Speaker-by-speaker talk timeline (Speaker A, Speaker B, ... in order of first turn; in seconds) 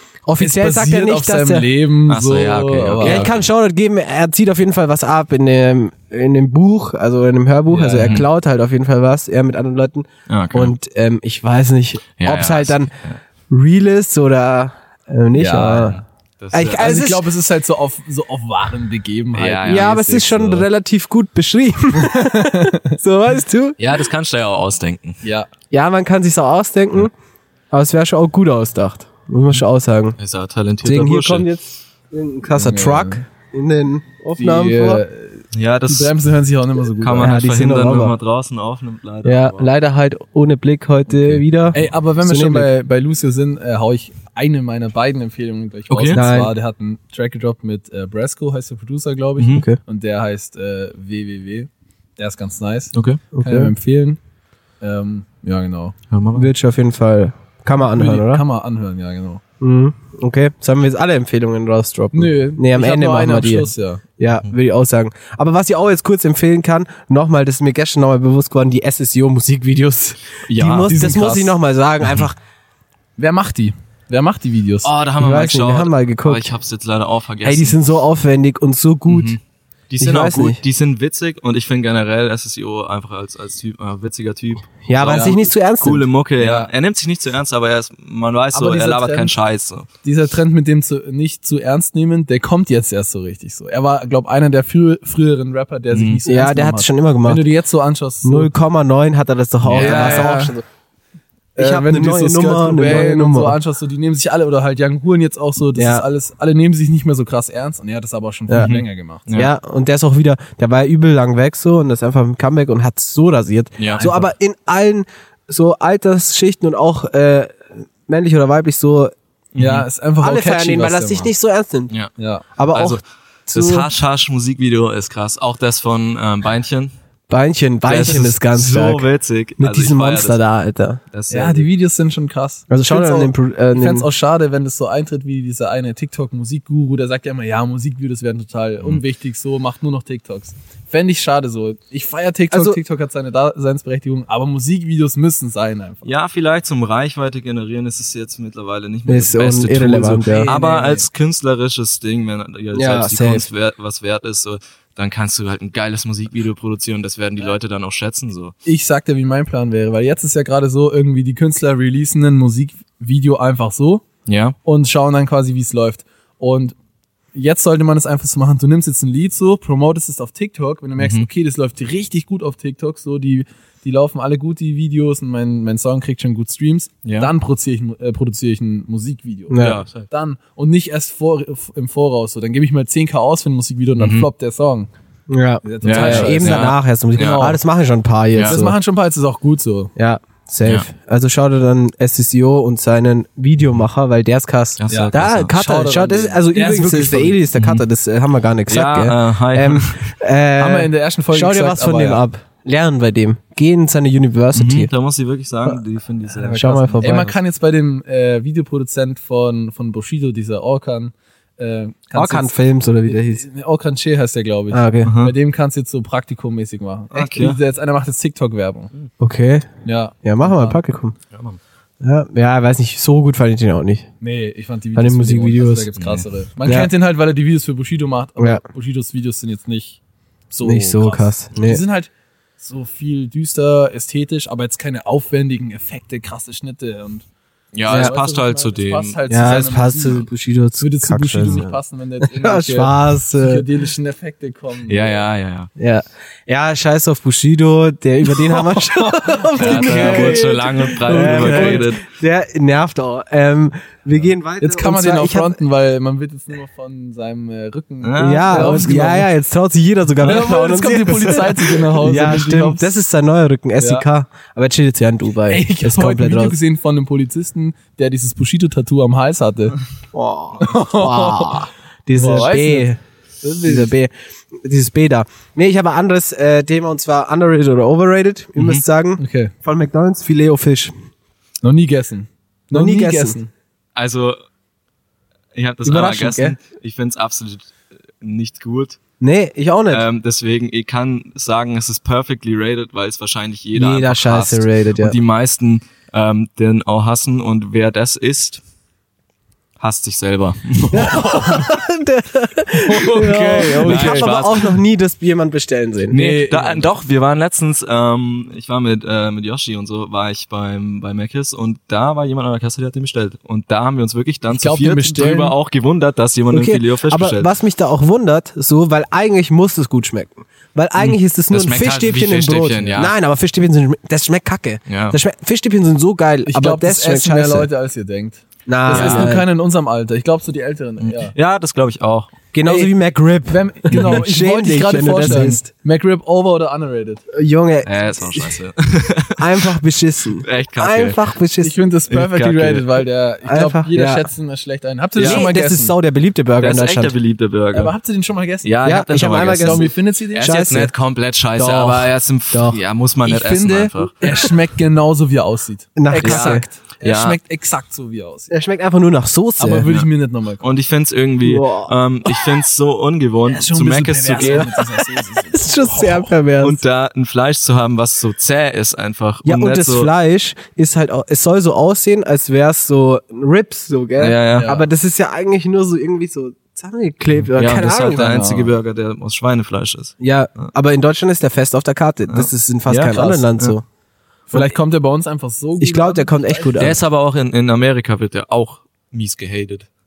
Speaker A: 0.3-1.7, 3.0-12.9, 13.5-16.0, 16.5-17.3, 19.6-23.8, 25.7-27.1, 27.7-30.2, 30.8-35.0, 37.2-38.1, 39.2-42.7, 46.1-46.5, 49.5-49.8, 53.3-53.7, 56.4-58.4, 59.6-72.4, 75.2-76.5, 77.4-79.4, 80.0-80.6, 84.9-86.0, 96.2-97.5, 98.2-100.7, 101.6-103.6, 105.8-106.0, 109.3-119.1, 120.2-122.0, 122.6-123.9, 127.3-129.1, 129.6-131.0, 132.7-134.1, 142.5-142.8, 149.1-150.5, 152.7-153.4, 179.5-179.8, 185.3-188.8, 190.0-204.9, 206.5-207.3, 212.2-213.4, 214.7-215.1, 219.2-219.7, 220.2-221.2, 222.0-224.1, 224.9-225.9, 226.6-226.9, 230.6-231.8, 237.9-238.1, 239.3-243.7, 245.8-255.6, 258.2-266.6, 270.1-273.0, 273.6-280.9, 282.7-283.4, 285.9-286.6, 289.2-290.1, 293.7-295.2, 300.9-306.2, 316.5-327.7, 328.7-329.5, 332.5-335.7, 337.3-338.6, 339.4-341.8, 343.5-344.3, 345.2-347.1, 348.8-350.9, 352.5-352.8, 356.0-356.7, 358.5-359.9, 361.4-361.9, 364.4-364.7, 365.4-366.8, 369.4-378.7, 380.2-383.8, 385.8-387.0
Speaker B: 0.4-3.3, 7.7-8.2, 15.3-16.0, 16.8-20.2, 22.0-23.0, 25.2-25.5, 32.5-33.2, 34.4-37.4, 41.7-54.2, 54.8-56.0, 57.8-59.4, 62.1-64.0, 70.7-71.6, 73.2-74.9, 85.0-85.4, 86.4-86.7, 88.5-89.3, 90.0-98.5, 99.7-100.6, 101.6-109.2, 113.9-114.3, 119.6-121.3, 122.2-122.5, 131.3-146.1, 150.3-151.1, 158.7-164.1, 164.7-166.8, 167.3-184.9, 185.6-187.6, 188.4-189.9, 194.9-197.4, 200.6-202.2, 206.4-218.9, 219.8-220.8, 224.2-230.0, 230.5-237.2, 237.9-240.3, 240.8-245.2, 248.3-251.9, 254.6-259.3, 260.2-262.9, 263.8-264.1, 265.5-269.8, 270.6-271.6, 272.1-272.9, 273.4-273.9, 279.2-279.5, 281.6-283.5, 303.5-304.4, 306.1-306.9, 314.5-315.6, 326.5-331.3, 332.6-332.9, 333.5-337.2, 341.6-345.9, 347.7-348.7, 349.5-350.5, 351.6-352.1, 353.2-358.5, 359.6-360.7, 363.5-366.3, 374.6-374.9, 383.1-383.5, 384.5-386.9
Speaker C: 2.1-3.4, 8.0-8.3, 10.3-10.7, 12.2-13.2, 15.9-17.0, 19.3-20.6, 23.8-25.2, 30.2-31.5, 35.5-36.1, 37.0-39.7, 45.9-46.2, 49.4-49.6, 52.9-53.2, 56.1-56.5, 70.5-70.9, 74.8-77.8, 79.1-79.4, 79.9-89.9, 95.9-96.2, 99.6-100.4, 108.6-109.5, 113.8-114.1, 119.5-119.9, 122.7-126.9, 127.9-130.4, 131.1-131.7, 146.0-158.6, 164.3-164.6, 171.0-171.3, 177.0-177.3, 179.6-180.1, 184.0-184.3, 185.8-187.5, 188.3-188.6, 194.8-195.6, 197.5-197.8, 198.7-200.1, 204.5-207.4, 215.0-215.3, 217.1-217.6, 221.3-221.6, 226.0-226.2, 237.7-239.2, 244.9-245.7, 249.6-252.0, 258.0-259.1, 278.6-278.8, 284.0-284.4, 285.6-289.0, 289.9-298.6, 299.8-301.7, 302.9-304.8, 306.1-317.5, 321.0-323.1, 324.9-325.2, 328.9-329.3, 331.0-332.3, 333.9-334.2, 337.9-339.7, 340.4-341.2, 342.1-343.0, 345.2-345.5, 346.6-347.9, 348.6-354.4, 356.2-357.4, 360.6-364.9, 366.6-370.1, 374.2-374.7, 377.5-380.7, 382.3-383.7, 386.8-389.9